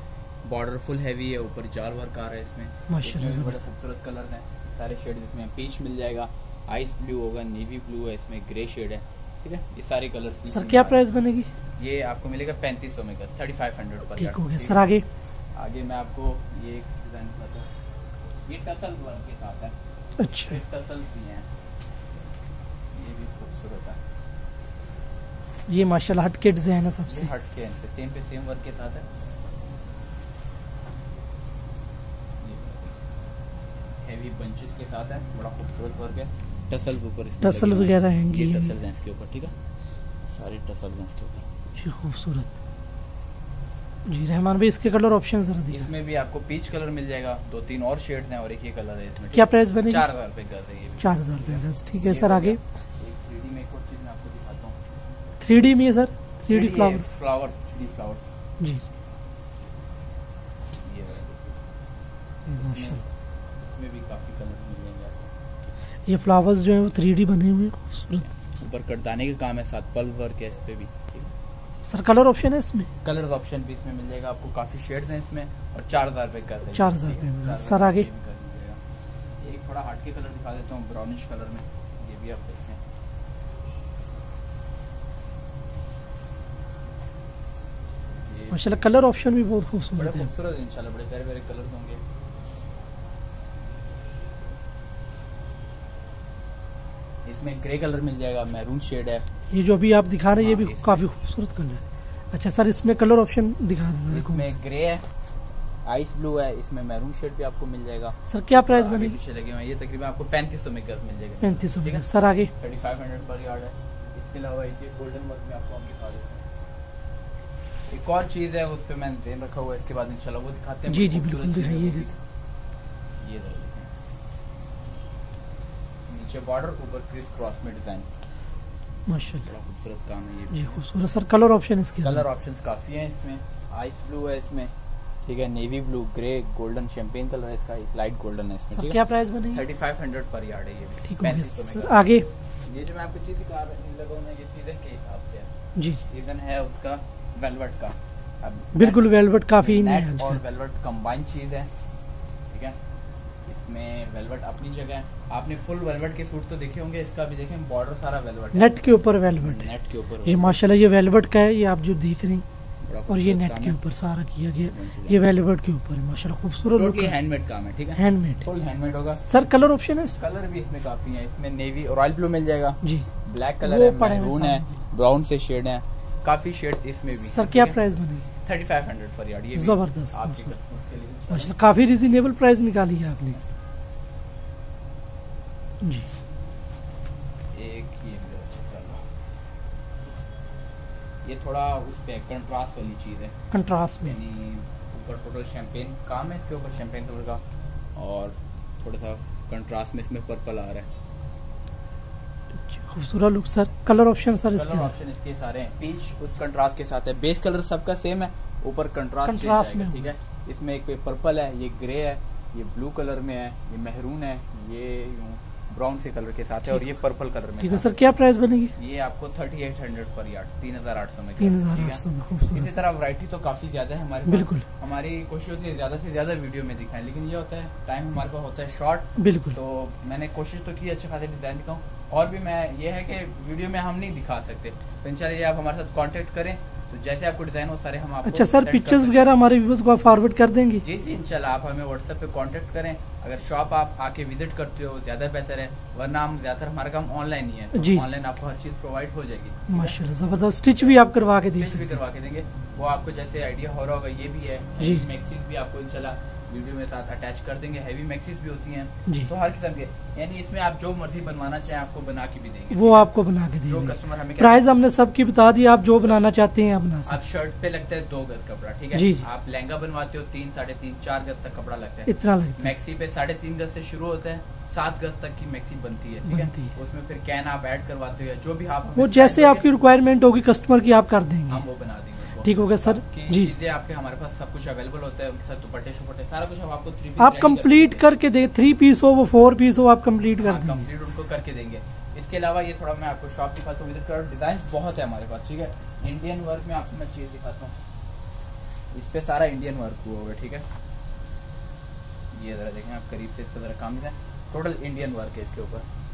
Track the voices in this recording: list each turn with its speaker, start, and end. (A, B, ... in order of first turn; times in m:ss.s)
0:00.4-0:11.0 A
0:02.9-0:03.6 B
0:10.5-0:11.5 B
0:11.8-0:15.0 A
0:14.2-0:15.0 B
0:15.6-0:17.7 A
0:18.4-0:19.7 A
0:20.2-0:20.6 B
0:20.3-0:21.5 A
0:22.9-0:24.0 A
0:25.7-0:27.3 B
0:27.1-0:29.0 A
0:32.4-0:33.0 A
0:34.0-0:39.5 A
0:37.4-0:38.7 B
0:40.3-0:41.4 A
0:41.8-0:42.5 B
0:44.1-0:45.9 B
0:45.7-0:54.8 A
0:49.3-0:50.0 B
0:51.0-0:52.6 B
0:55.4-0:57.0 B
0:56.5-0:58.3 A
1:00.8-1:01.5 A
1:02.5-1:03.0 B
1:02.6-1:05.3 A
1:06.0-1:08.3 B
1:08.3-1:11.3 A
1:11.8-1:12.9 B
1:13.0-1:18.8 A
1:16.7-1:18.1 B
1:19.4-1:22.8 A
1:28.2-1:28.9 A
1:28.5-1:30.3 B
1:30.0-1:32.0 A
1:37.2-1:39.3 A
1:39.5-1:44.5 B
1:40.4-1:41.0 A
1:44.1-1:45.0 A
1:45.8-1:52.0 A
1:48.3-1:49.2 B
1:51.4-1:52.5 B
1:52.6-1:56.4 A
1:57.9-2:02.1 A
2:00.9-2:02.2 B
2:03.2-2:03.9 A
2:06.1-2:08.1 A
2:09.1-2:09.4 B
2:09.4-2:10.8 A
2:10.5-2:12.2 B
2:12.0-2:14.7 A
2:15.2-2:25.5 A
2:18.7-2:19.6 B
2:21.1-2:22.3 B
2:25.8-2:26.0 B
2:26.1-2:31.7 A
2:28.7-2:30.4 B
2:32.5-2:32.8 A
2:33.5-2:38.8 A
2:38.5-2:39.7 B
2:39.4-2:40.6 A
2:40.2-2:42.4 B
2:42.8-2:43.8 A
2:43.1-2:47.2 B
2:44.7-2:45.2 A
2:46.7-2:49.2 A
2:47.9-2:48.4 B
2:49.2-2:50.2 B
2:50.1-2:57.8 A
2:52.8-2:53.1 B
2:53.6-2:54.7 B
2:57.2-2:58.2 B
2:58.4-3:01.6 A
2:59.5-3:00.5 B
3:01.3-3:03.5 B
3:07.5-3:09.0 A
3:11.2-3:13.4 A
3:13.5-3:14.2 B
3:14.0-3:17.4 A
3:18.0-3:20.9 A
3:22.6-3:24.9 B
3:24.5-3:38.0 A
3:29.2-3:30.1 B
3:37.6-3:38.7 B
3:38.8-3:59.3 A
3:41.4-3:42.8 B
3:44.3-3:44.6 B
3:49.2-3:49.6 B
3:58.2-4:00.8 B
4:00.8-4:24.8 A
4:07.7-4:08.0 B
4:09.7-4:12.0 B
4:14.8-4:15.0 B
4:22.7-4:27.2 B
4:27.0-4:39.7 A
4:28.9-4:29.3 B
4:32.1-4:32.7 B
4:36.2-4:36.7 B
4:39.0-4:41.6 B
4:41.5-4:48.1 A
4:42.4-4:43.5 B
4:47.2-4:50.8 B
4:50.4-4:57.7 A
4:58.9-5:00.6 A
5:02.3-5:05.8 A